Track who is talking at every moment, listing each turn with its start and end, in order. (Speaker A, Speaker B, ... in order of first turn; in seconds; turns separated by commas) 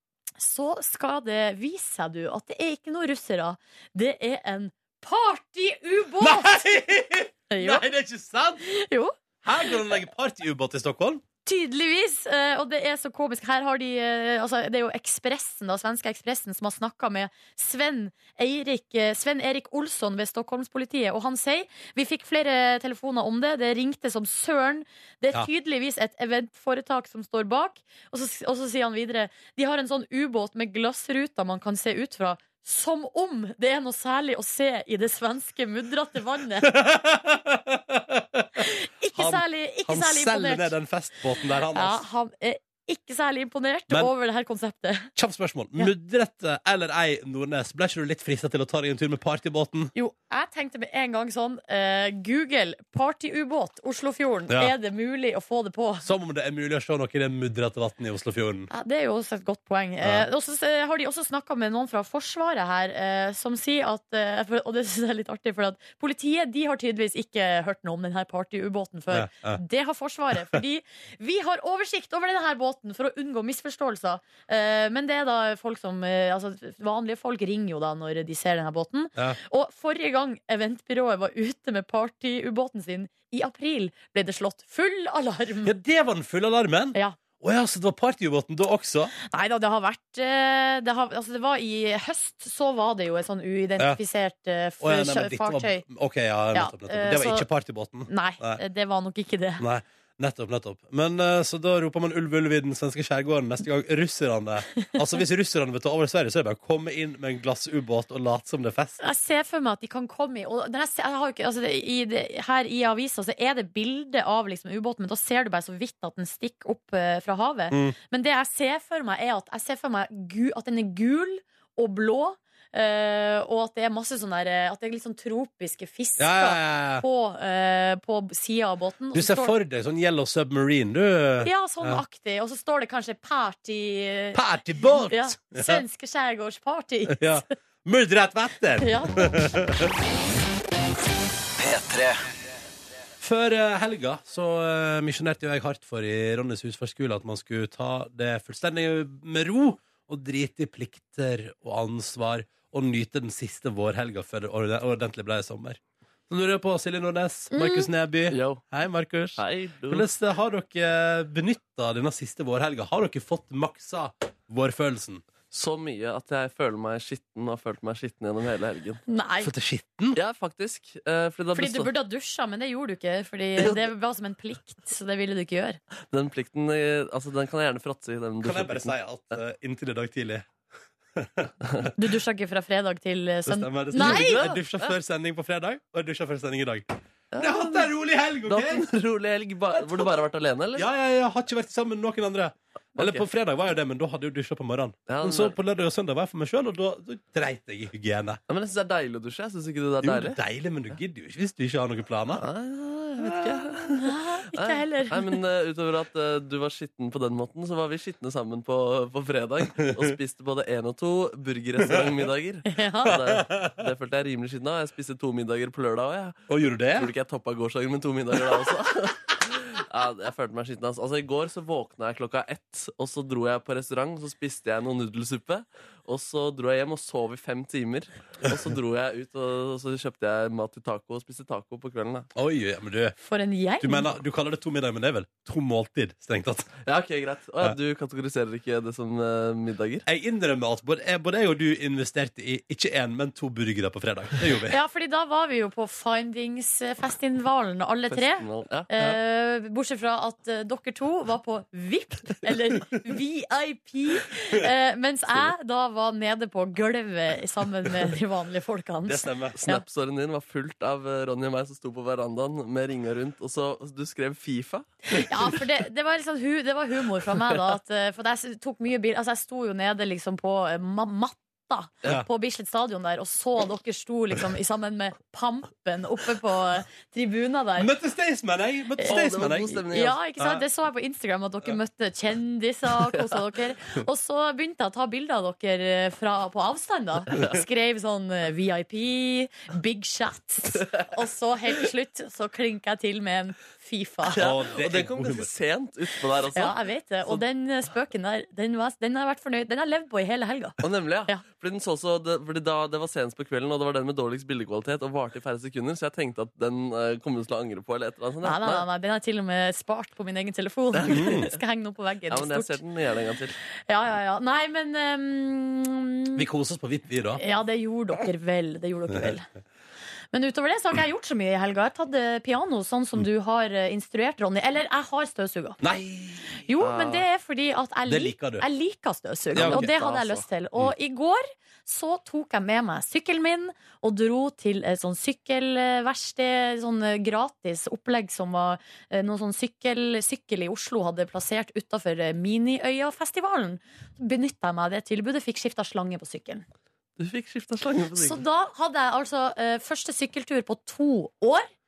Speaker A: 0.4-6.6, Speaker B: 6.2-8.6, Speaker A: 7.5-7.8, Speaker A: 8.6-9.8, Speaker B: 9.4-11.2, Speaker A: 11.4-36.7, Speaker B: 36.6-42.0, Speaker A: 38.6-40.7, Speaker A: 41.7-45.1, Speaker B: 45.2-49.9, Speaker A: 50.0-56.1, Speaker B: 54.5-54.7, Speaker B: 56.0-58.7, Speaker A: 58.7-85.7, Speaker B: 60.0-60.3, Speaker B: 69.1-69.6, Speaker B: 85.7-89.1, Speaker A: 89.3-95.8, Speaker B: 94.8-98.6, Speaker A: 96.5-97.5, Speaker A: 98.1-99.7, Speaker B: 99.6-109.0, Speaker A: 109.0-129.6, Speaker B: 117.7-118.0, Speaker B: 126.2-127.0, Speaker B: 129.1-132.0, Speaker A: 131.4-134.4, Speaker B: 134.3-135.8, Speaker A: 135.0-137.4, Speaker B: 137.1-139.9, Speaker A: 138.8-139.6, Speaker B: 143.2-165.2, Speaker A: 157.5-157.9, Speaker C: 158.3-158.6, Speaker C: 159.4-160.1, Speaker C: 165.5-169.0, Speaker A: 169.1-169.5, Speaker B: 169.4-170.2, Speaker C: 170.2-171.9, Speaker A: 171.6-175.8, Speaker C: 173.6-173.8, Speaker C: 176.1-178.9, Speaker B: 178.4-180.5, Speaker B: 181.2-181.9, Speaker A: 182.0-184.5, Speaker B: 183.5-188.9, Speaker C: 183.9-184.9, Speaker C: 187.3-187.9, Speaker C: 188.4-190.9, Speaker B: 190.8-198.4, Speaker C: 192.9-193.3, Speaker C: 195.1-195.6, Speaker C: 198.5-200.4, Speaker B: 200.0-202.4, Speaker C: 202.4-216.4, Speaker B: 203.2-203.7, Speaker A: 203.9-205.4, Speaker B: 211.8-212.3, Speaker A: 212.7-213.1, Speaker B: 213.1-213.8, Speaker B: 216.5-217.1, Speaker C: 216.9-232.3, Speaker B: 232.3-233.2, Speaker A: 233.2-234.1, Speaker B: 233.8-236.7, Speaker C: 236.8-240.1, Speaker B: 240.1-244.8, Speaker A: 244.7-259.8, Speaker C: 248.1-248.9, Speaker B: 259.1-259.6, Speaker C: 259.6-265.3, Speaker A: 265.1-277.9, Speaker B: 277.8-279.8, Speaker A: 279.0-294.4, Speaker C: 279.1-280.2, Speaker C: 294.3-297.4, Speaker B: 294.4-295.5, Speaker A: 296.5-301.4, Speaker C: 300.8-308.9, Speaker A: 308.4-312.8, Speaker C: 311.0-311.4, Speaker B: 311.1-311.5, Speaker C: 312.3-313.6, Speaker A: 313.9-316.4, Speaker B: 316.4-317.4, Speaker A: 317.4-319.5, Speaker A: 320.3-325.8, Speaker B: 325.8-326.6, Speaker A: 326.7-346.6, Speaker C: 326.8-327.2, Speaker B: 328.1-328.7, Speaker B: 329.5-329.9, Speaker C: 329.6-330.5, Speaker C: 347.2-348.4, Speaker A: 348.1-351.7